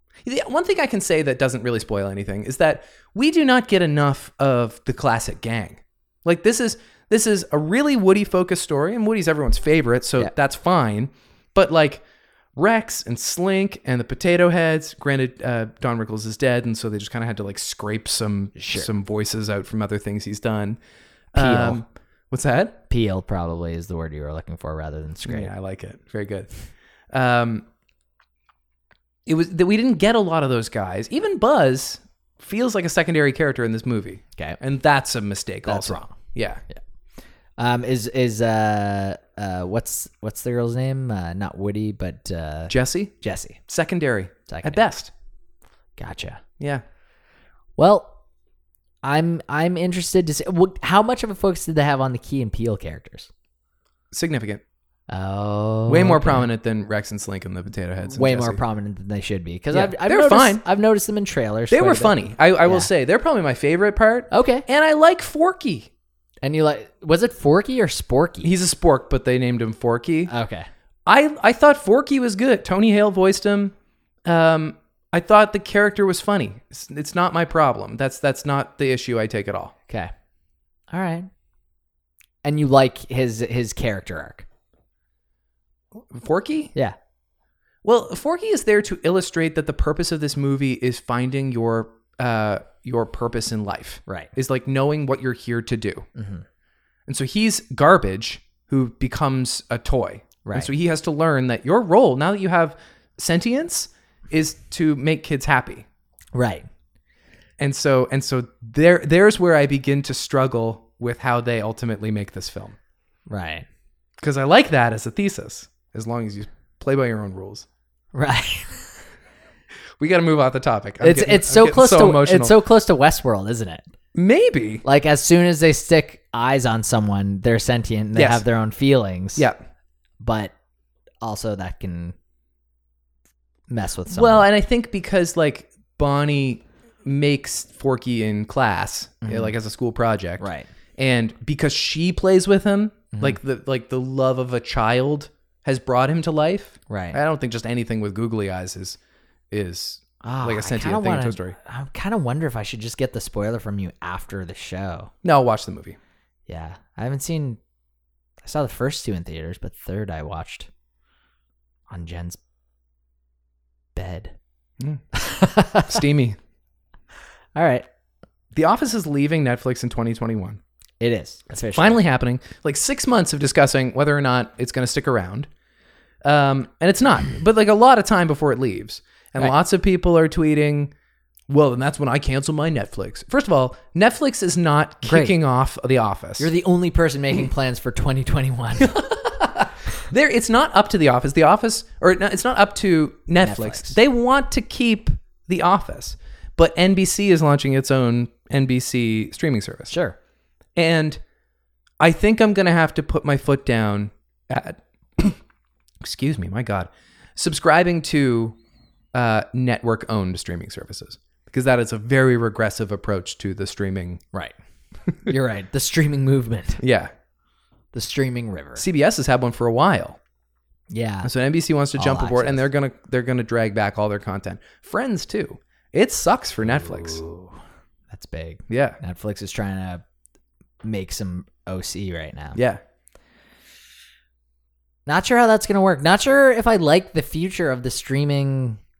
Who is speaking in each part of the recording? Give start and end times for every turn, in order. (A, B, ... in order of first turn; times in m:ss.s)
0:00.2-0:12.0 A
0:12.6-0:20.8 A
0:18.6-0:18.9 B
0:21.3-0:22.8 A
0:21.4-0:21.8 B
0:22.9-0:25.5 B
0:25.2-0:26.5 A
0:27.1-0:27.6 A
0:29.2-0:36.6 A
0:35.6-0:36.2 B
0:37.6-0:43.6 B
0:42.7-0:43.1 A
0:43.7-0:45.1 A
0:44.5-0:44.8 B
0:46.0-0:46.4 B
0:47.8-0:48.1 B
0:49.0-0:53.3 B
0:54.1-0:54.6 A
0:55.1-0:56.5 B
0:55.9-0:58.6 A
0:58.1-1:02.9 B
0:59.7-1:00.6 A
1:01.7-1:05.9 A
1:04.3-1:04.6 B
1:06.4-1:08.5 B
1:08.4-1:10.3 A
1:10.3-1:10.7 B
1:11.0-1:13.7 A
1:14.2-1:19.7 A
1:20.9-1:21.3 B
1:22.4-1:24.4 B
1:26.0-1:26.7 A
1:27.8-1:36.1 A
1:36.1-1:36.4 B
1:37.1-1:45.8 A
1:40.4-1:40.7 B
1:46.3-1:46.6 B
1:47.6-1:52.8 A
1:53.3-1:53.6 B
1:54.2-1:57.6 A
1:58.1-1:58.9 B
2:00.0-2:02.6 A
2:01.0-2:03.8 B
2:04.1-2:04.8 A
2:04.8-2:09.5 B
2:08.1-2:08.4 A
2:10.2-2:10.5 B
2:11.2-2:12.1 B
2:13.7-2:14.5 B
2:14.1-2:29.0 A
2:19.2-2:19.5 B
2:20.4-2:20.7 B
2:26.9-2:27.2 B
2:29.5-2:31.6 A
2:30.2-2:35.1 B
2:35.2-2:36.0 A
2:36.5-2:37.6 B
2:38.4-2:40.7 B
2:41.9-2:42.4 B
2:43.9-2:44.3 B
2:45.1-2:46.0 B
2:45.8-2:46.4 A
2:47.5-2:47.8 B
2:48.5-2:50.6 A
2:51.0-2:52.0 B
2:51.7-2:55.5 A
2:56.2-3:00.9 A
3:01.5-3:06.5 A
3:05.0-3:05.3 B
3:06.4-3:09.4 B
3:08.8-3:19.9 A
3:13.4-3:14.0 B
3:19.9-3:20.2 B
3:20.8-3:21.2 A
3:22.0-3:25.4 A
3:26.0-3:28.6 A
3:29.1-3:34.2 A
3:35.2-3:36.8 B
3:36.8-3:37.1 A
3:37.9-3:38.8 B
3:38.8-3:40.2 A
3:40.9-3:41.3 B
3:41.2-3:47.2 A
3:42.0-3:42.6 B
3:46.6-3:47.6 B
3:48.1-3:50.0 B
3:48.7-3:49.0 A
3:50.8-3:52.6 B
3:52.5-3:52.8 A
3:55.0-3:58.8 B